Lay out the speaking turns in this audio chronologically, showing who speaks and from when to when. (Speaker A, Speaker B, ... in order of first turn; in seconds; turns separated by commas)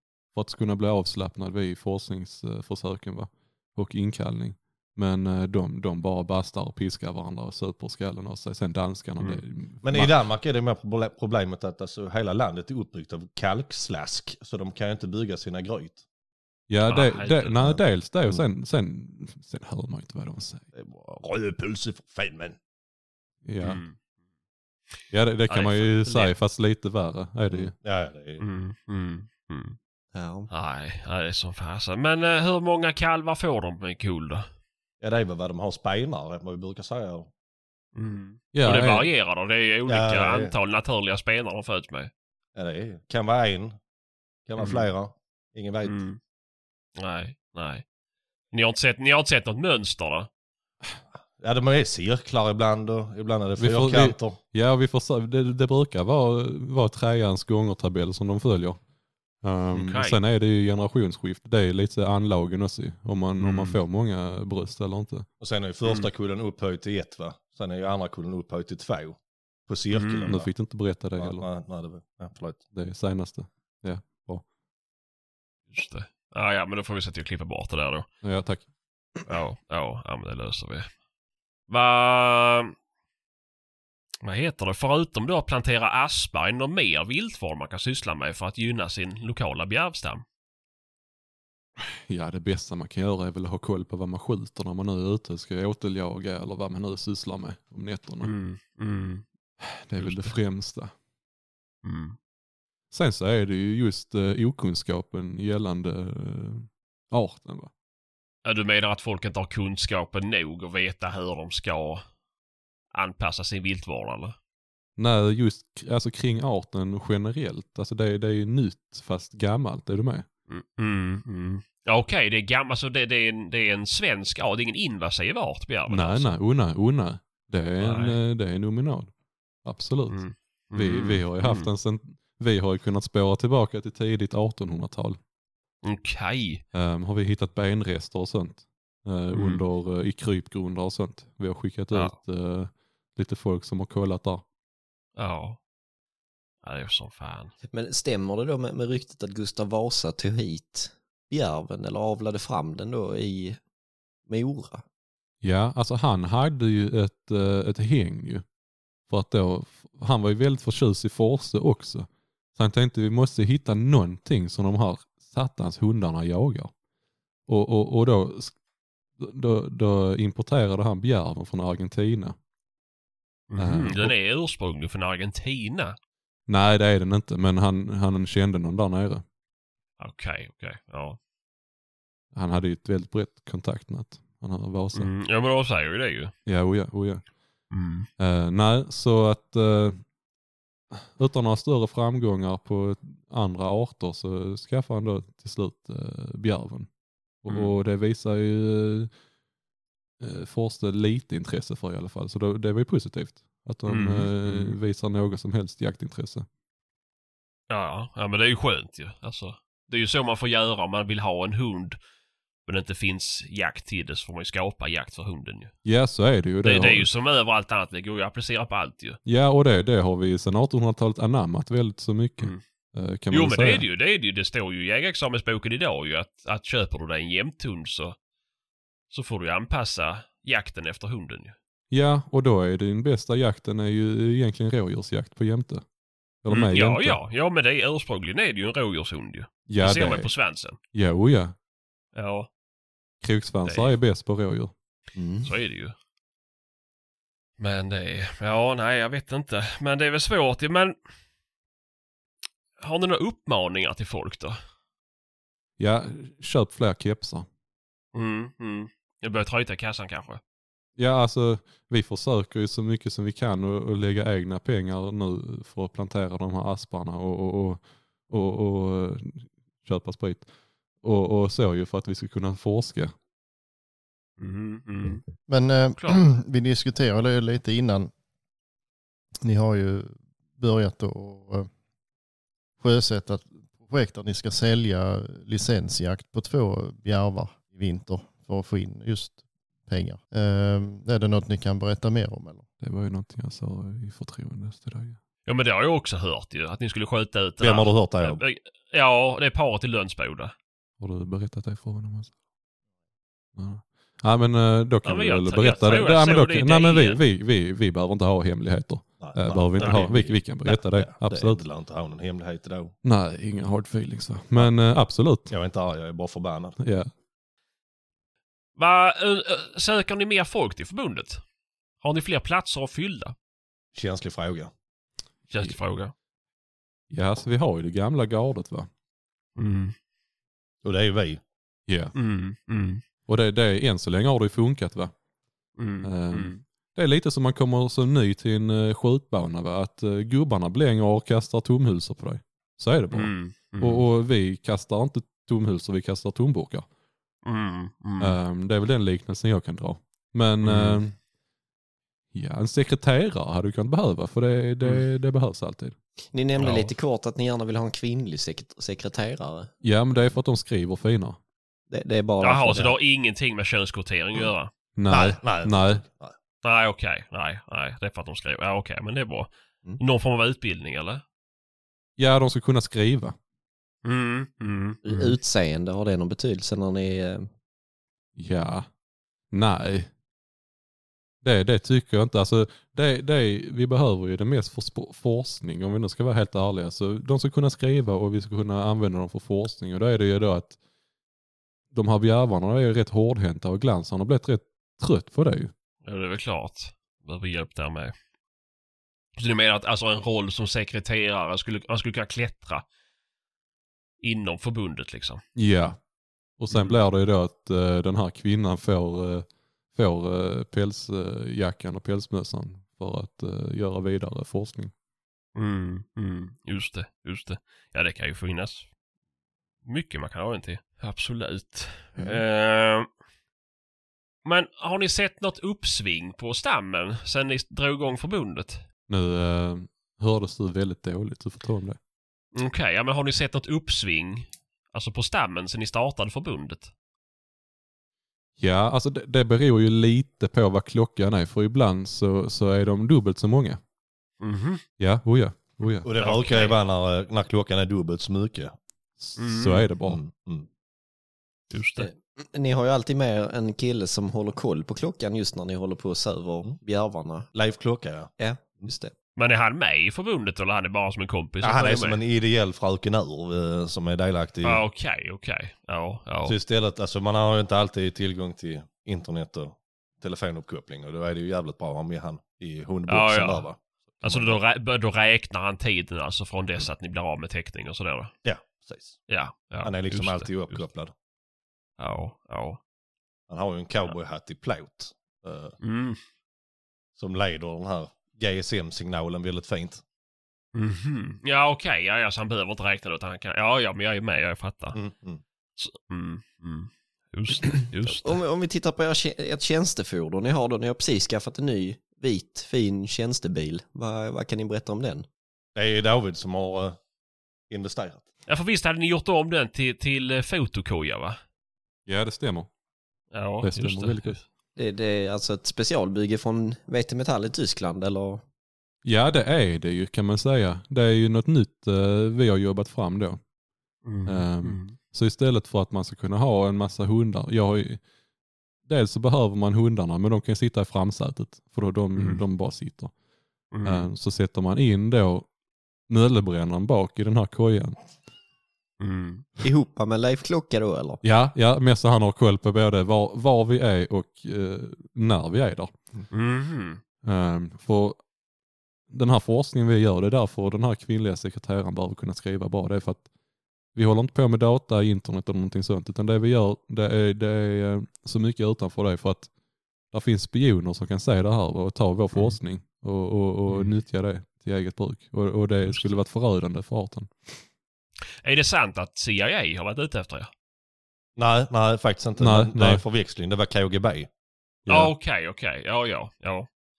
Speaker A: 0.3-10.1, Speaker B: 9.8-16.0, Speaker A: 16.7-20.6, Speaker C: 16.9-17.7, Speaker B: 20.7-22.6, Speaker A: 23.4-23.8, Speaker C: 23.6-23.9, Speaker A: 25.1-27.7, Speaker C: 25.5-26.3, Speaker B: 27.5-28.4, Speaker C: 28.4-29.8, Speaker D: 30.1-30.5, Speaker C: 30.5-34.5, Speaker B: 35.0-37.3, Speaker C: 37.9-42.1, Speaker A: 38.5-39.1, Speaker B: 39.9-40.5, Speaker B: 42.5-43.8, Speaker B: 44.5-46.0, Speaker C: 44.6-44.9, Speaker C: 45.8-46.2, Speaker C: 47.0-47.8, Speaker C: 48.5-50.3, Speaker B: 51.4-54.4, Speaker A: 53.6-58.8, Speaker A: 59.4-65.3, Speaker C: 59.7-60.2, Speaker C: 63.4-63.8, Speaker B: 65.4-70.5, Speaker C: 69.9-70.4, Speaker A: 70.3-71.5, Speaker B: 71.2-72.6, Speaker A: 72.7-74.4, Speaker C: 75.7-78.0, Speaker A: 78.2-78.6, Speaker C: 79.3-80.9, Speaker C: 81.7-82.7, Speaker C: 84.2-90.2, Speaker A: 91.8-98.3, Speaker C: 98.2-99.2, Speaker A: 99.6-100.9, Speaker C: 100.0-100.3, Speaker C: 101.8-102.2, Speaker A: 102.9-107.7, Speaker C: 108.4-112.0, Speaker C: 112.9-114.3, Speaker A: 115.0-120.3, Speaker C: 120.5-126.3, Speaker A: 125.9-129.1, Speaker C: 127.8-128.2, Speaker A: 129.6-130.2, Speaker C: 130.1-131.7, Speaker A: 130.7-135.2, Speaker C: 135.8-136.6, Speaker A: 136.7-144.4, Speaker C: 139.3-139.6, Speaker C: 145.2-145.6, Speaker C: 146.6-147.5, Speaker D: 147.7-153.6, Speaker D: 154.3-154.8, Speaker A: 155.4-158.4, Speaker A: 159.1-166.7, Speaker A: 167.5-168.5, Speaker A: 169.2-172.3, Speaker C: 173.5-175.9, Speaker A: 173.6-174.1, Speaker A: 176.5-179.2, Speaker C: 180.0-181.2, Speaker A: 182.3-185.1, Speaker C: 184.9-186.3, Speaker A: 186.4-187.2, Speaker C: 187.7-188.1, Speaker A: 188.2-190.0, Speaker A: 190.9-196.9, Speaker A: 197.4-199.1, Speaker C: 197.5-197.7, Speaker A: 200.2-206.4, Speaker C: 203.9-204.8, Speaker C: 207.7-212.0, Speaker C: 212.7-215.7, Speaker A: 215.8-217.1, Speaker C: 216.6-219.2, Speaker A: 219.2-223.8, Speaker C: 223.3-228.2, Speaker C: 229.1-231.6, Speaker A: 231.9-235.8, Speaker A: 236.4-237.2, Speaker C: 236.5-240.8, Speaker A: 239.7-240.3, Speaker A: 240.9-241.5, Speaker C: 242.1-242.5, Speaker A: 243.2-244.7, Speaker C: 243.6-243.9, Speaker D: 245.2-245.5, Speaker C: 245.4-245.9, Speaker C: 247.6-250.9, Speaker C: 252.8-254.6, Speaker A: 255.8-257.5, Speaker C: 258.1-260.4, Speaker A: 261.0-270.5, Speaker A: 271.0-273.1, Speaker C: 274.4-275.2, Speaker E: 275.5-278.1, Speaker C: 275.9-276.2, Speaker E: 279.4-281.7, Speaker E: 282.8-292.6, Speaker A: 292.8-295.2, Speaker C: 295.4-300.5, Speaker B: 297.6-298.4, Speaker A: 301.0-302.3, Speaker A: 303.6-311.6, Speaker C: 305.0-307.2, Speaker B: 309.2-312.9, Speaker C: 309.8-310.1, Speaker A: 313.0-315.5, Speaker B: 315.5-316.8, Speaker A: 316.8-317.1, Speaker C: 318.8-321.4, Speaker C: 322.0-323.3, Speaker B: 323.9-324.7, Speaker C: 325.5-326.1, Speaker A: 327.1-328.9, Speaker C: 329.6-329.9, Speaker B: 330.8-331.4, Speaker A: 331.9-332.1, Speaker C: 332.1-333.0, Speaker A: 333.3-335.1, Speaker C: 335.8-336.6, Speaker A: 336.0-346.9, Speaker C: 343.1-344.0, Speaker C: 347.4-348.4, Speaker A: 348.2-351.2, Speaker C: 350.6-351.0, Speaker A: 352.3-355.9, Speaker D: 356.3-359.7, Speaker C: 356.6-356.9, Speaker A: 359.8-361.4, Speaker D: 361.9-362.9, Speaker C: 362.4-364.7, Speaker A: 364.9-366.0, Speaker B: 365.1-366.3, Speaker C: 366.6-371.2, Speaker A: 372.2-373.4, Speaker C: 374.0-375.3, Speaker D: 375.0-377.5, Speaker A: 378.4-378.9, Speaker A: 379.5-380.1, Speaker A: 381.4-390.8, Speaker A: 391.9-395.7, Speaker C: 396.0-398.1, Speaker C: 399.4-402.8, Speaker C: 404.2-405.4, Speaker A: 405.5-406.0, Speaker A: 406.6-414.9, Speaker C: 406.7-407.0, Speaker C: 415.5-418.9, Speaker C: 419.8-423.1, Speaker C: 424.4-428.8, Speaker A: 429.1-432.0, Speaker C: 432.5-436.9, Speaker A: 438.6-443.8, Speaker C: 444.4-444.8, Speaker A: 445.0-446.1, Speaker B: 446.0-448.7, Speaker C: 446.1-446.8, Speaker A: 449.2-450.2, Speaker C: 449.4-449.9, Speaker B: 450.1-450.7, Speaker C: 451.7-452.1, Speaker D: 452.0-457.5, Speaker B: 457.5-458.9, Speaker D: 458.4-459.1, Speaker C: 459.4-462.2, Speaker B: 461.6-464.8, Speaker C: 464.6-466.6, Speaker B: 466.4-474.6, Speaker C: 473.1-473.7, Speaker C: 474.2-478.3, Speaker B: 478.4-479.2, Speaker C: 479.3-480.8, Speaker B: 479.8-481.1, Speaker C: 482.0-482.8, Speaker B: 483.5-485.8, Speaker C: 485.8-486.2, Speaker B: 487.2-490.0, Speaker C: 490.7-495.0, Speaker B: 494.9-495.4, Speaker C: 495.8-498.4, Speaker D: 498.0-505.2, Speaker B: 505.7-507.0, Speaker B: 507.7-508.2, Speaker C: 508.5-511.4, Speaker A: 512.0-512.7, Speaker C: 513.3-514.4, Speaker A: 513.6-514.4, Speaker D: 514.8-518.4, Speaker A: 519.0-523.4, Speaker C: 524.0-525.0, Speaker A: 524.2-528.0, Speaker A: 528.9-533.1, Speaker C: 532.1-532.4, Speaker C: 533.7-534.1, Speaker A: 533.8-535.5, Speaker A: 536.1-538.0, Speaker C: 539.0-539.5, Speaker D: 539.6-541.2, Speaker A: 541.2-545.9, Speaker C: 546.3-547.0, Speaker A: 547.2-548.2, Speaker A: 549.1-553.2, Speaker A: 553.9-559.5, Speaker A: 560.1-567.6, Speaker C: 563.7-563.9, Speaker C: 565.8-566.1, Speaker C: 568.4-570.5, Speaker B: 571.4-574.3, Speaker A: 572.4-573.0, Speaker A: 574.9-575.1, Speaker C: 574.9-576.7